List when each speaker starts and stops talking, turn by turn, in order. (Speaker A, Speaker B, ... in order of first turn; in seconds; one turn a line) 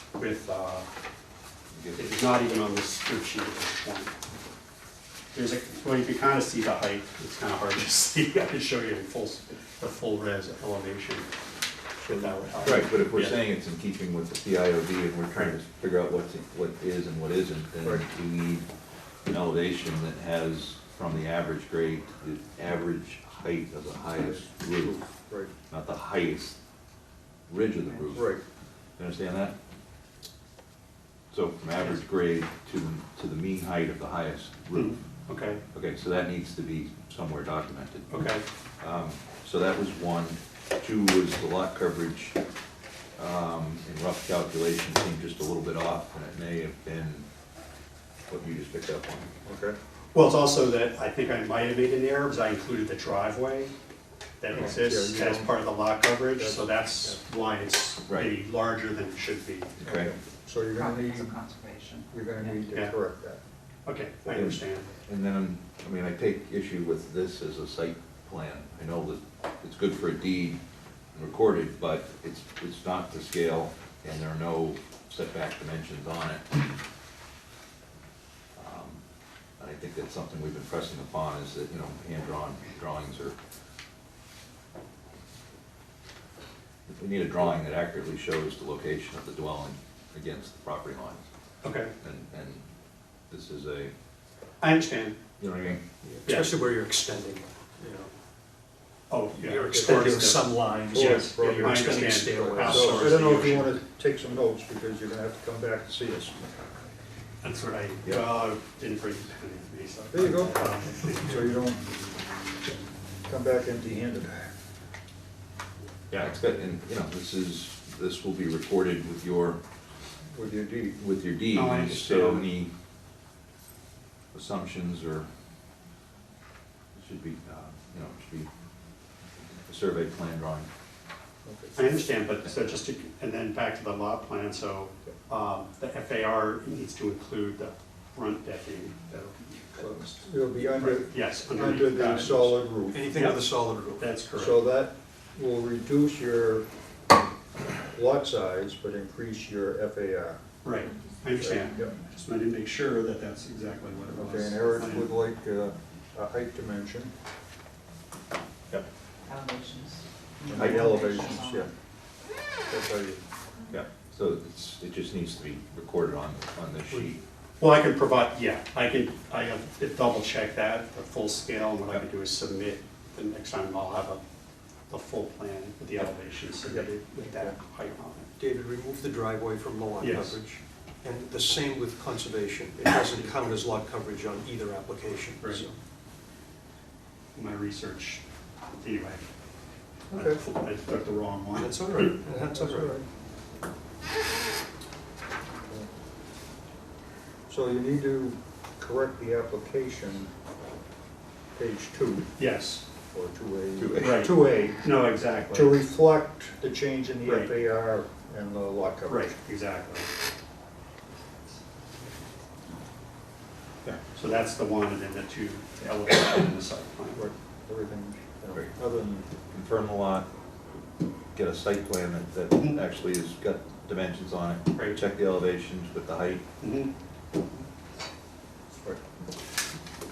Speaker A: 0.2-0.8
Speaker B: 1.7-2.2
Speaker A: 1.9-4.1
Speaker A: 5.3-11.3
Speaker C: 12.0-12.8
Speaker A: 12.0-13.4
Speaker B: 12.6-18.6
Speaker B: 19.2-25.0
Speaker C: 24.2-25.5
Speaker B: 25.7-26.6
Speaker B: 27.5-28.3
Speaker C: 28.1-28.4
Speaker B: 29.0-29.5
Speaker B: 31.3-35.0
Speaker A: 34.7-35.6
Speaker B: 35.7-38.3
Speaker A: 38.1-38.4
Speaker B: 38.8-42.4
Speaker B: 43.2-47.2
Speaker B: 48.3-49.3
Speaker C: 49.4-49.8
Speaker A: 50.1-53.7
Speaker A: 54.4-59.8
Speaker C: 54.5-55.5
Speaker C: 56.4-57.2
Speaker B: 58.1-58.3
Speaker B: 59.8-60.1
Speaker C: 59.8-61.4
Speaker D: 60.7-62.6
Speaker C: 62.1-63.4
Speaker A: 63.8-64.9
Speaker B: 64.3-70.6
Speaker B: 71.1-76.6
Speaker B: 78.5-79.0
Speaker B: 79.6-83.3
Speaker B: 86.9-91.2
Speaker A: 91.6-91.9
Speaker B: 92.0-92.6
Speaker B: 93.3-93.9
Speaker A: 94.6-95.2
Speaker B: 95.4-95.8
Speaker E: 96.0-98.1
Speaker A: 96.2-96.6
Speaker A: 99.1-103.8
Speaker E: 99.4-103.1
Speaker C: 99.7-106.7
Speaker A: 107.4-111.6
Speaker C: 110.1-111.8
Speaker C: 113.2-114.5
Speaker B: 116.1-119.6
Speaker C: 120.3-121.0
Speaker B: 121.0-122.7
Speaker A: 121.5-122.5
Speaker B: 124.3-125.3
Speaker B: 126.9-128.5
Speaker B: 129.7-130.7
Speaker C: 131.4-131.8
Speaker A: 131.7-139.9
Speaker C: 139.7-143.3
Speaker A: 140.7-144.6
Speaker E: 142.9-144.1
Speaker C: 144.3-146.7
Speaker C: 147.9-150.4
Speaker A: 150.6-155.1
Speaker C: 151.4-151.9
Speaker D: 151.7-152.0
Speaker C: 154.1-157.1
Speaker D: 159.2-161.7
Speaker C: 160.5-161.7
Speaker C: 162.7-163.2
Speaker B: 163.7-167.2
Speaker A: 167.6-174.2
Speaker A: 174.9-178.3
Speaker C: 176.7-177.6
Speaker E: 178.4-185.8
Speaker A: 180.0-180.4
Speaker A: 183.0-183.6
Speaker A: 185.4-185.7
Speaker A: 187.3-188.2
Speaker A: 188.8-189.2
Speaker C: 190.1-190.4
Speaker A: 190.1-192.2
Speaker E: 191.6-193.0
Speaker C: 192.5-193.1
Speaker C: 197.5-200.3
Speaker C: 201.5-202.3
Speaker A: 202.4-202.8
Speaker C: 203.1-204.9
Speaker B: 203.8-204.3
Speaker A: 204.0-205.8
Speaker C: 205.5-209.3
Speaker A: 207.2-207.5
Speaker A: 209.1-210.1
Speaker A: 214.1-217.2
Speaker C: 217.1-219.3
Speaker B: 219.5-220.2
Speaker B: 221.3-226.4
Speaker A: 224.7-225.0
Speaker A: 226.6-226.9